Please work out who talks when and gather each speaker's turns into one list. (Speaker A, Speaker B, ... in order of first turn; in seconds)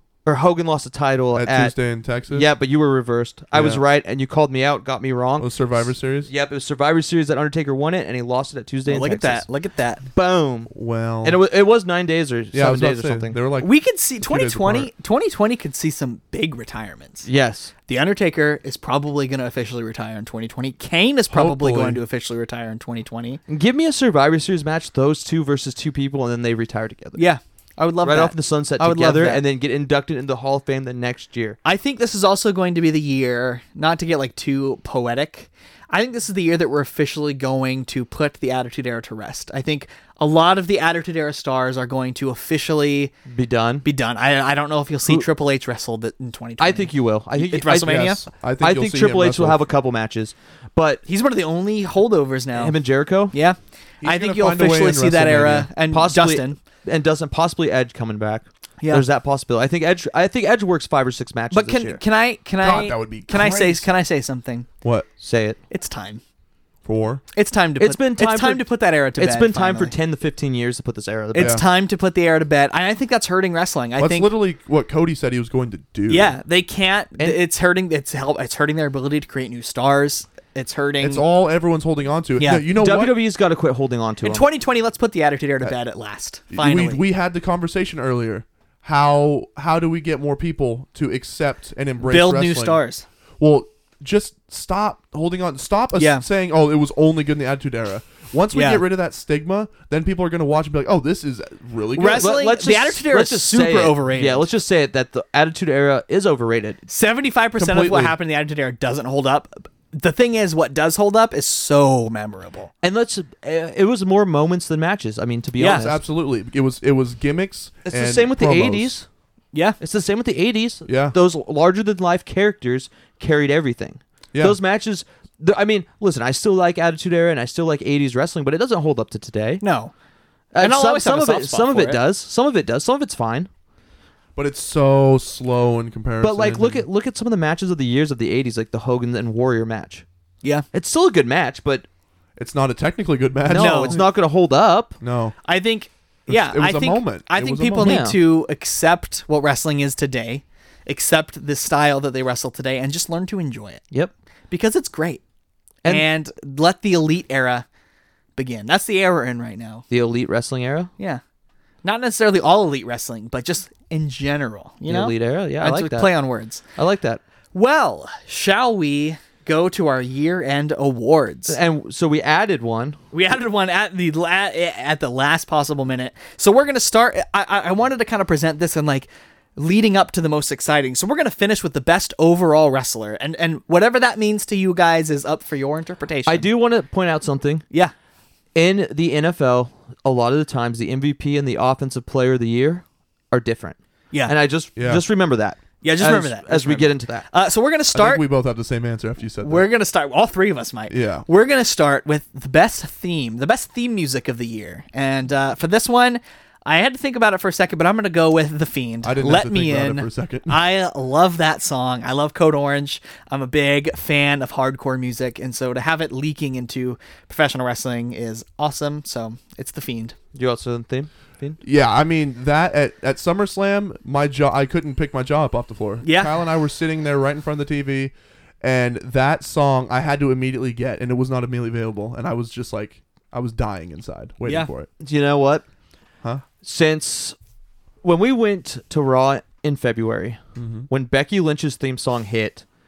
Speaker A: 0.2-1.8, 2.3-5.7, 6.2-9.4, 10.1-10.7, 11.2-13.4, 17.2-17.7, 23.5-27.2, 28.0-31.6, 43.3-43.9, 46.6-48.1, 48.6-51.0, 52.5-53.3, 55.9-62.0, 65.2-65.6, 67.8-71.6, 82.7-84.4, 102.0-106.8, 112.8-116.0, 117.8-119.0, 119.8-129.6, 130.5-133.5, 136.2-140.0, 140.7-141.8, 143.5-145.0, 147.8-148.2, 159.9-160.9, 164.9-166.1, 166.8-167.2, 171.5-173.0, 186.2-187.6, 188.5-197.3, 220.3-221.6, 235.0-235.6, 236.6-237.3, 238.0-242.6
Speaker B: 1.3-2.5, 3.5-3.8, 5.4-6.3, 10.7-11.4, 12.5-14.9, 21.3-22.0, 47.8-49.6, 54.0-55.7, 62.6-63.9, 64.8-65.1, 66.8-67.2, 71.4-71.6, 74.0-76.3, 81.0-83.2, 86.5-92.8, 93.4-102.3, 107.6-108.2, 115.7-118.9, 120.8-121.2, 134.3-136.8, 142.4-144.1, 145.0-145.3, 146.3-148.0, 194.8-195.0, 197.9-199.7, 200.9-201.2, 209.0-210.6, 221.6-234.9, 240.6-240.9
Speaker C: 8.8-10.0, 13.6-17.2, 17.9-23.4, 27.1-29.4, 31.6-43.1, 43.8-48.2, 51.0-52.7, 53.3-56.6, 61.5-64.7, 65.7-66.2, 67.3-69.9, 71.3-74.3, 76.1-81.2, 82.4-82.7, 84.2-87.0, 92.0-93.0, 96.0-96.2, 98.5-98.8, 101.9-104.4, 106.9-112.7, 115.6-115.9, 129.6-129.9, 130.6-132.0, 143.5-144.0, 145.4-153.8, 154.5-155.2, 155.8-157.7, 158.3-159.8, 161.8-166.6, 167.5-171.6, 173.1-186.4, 195.8-198.2, 199.4-220.1, 226.0-226.3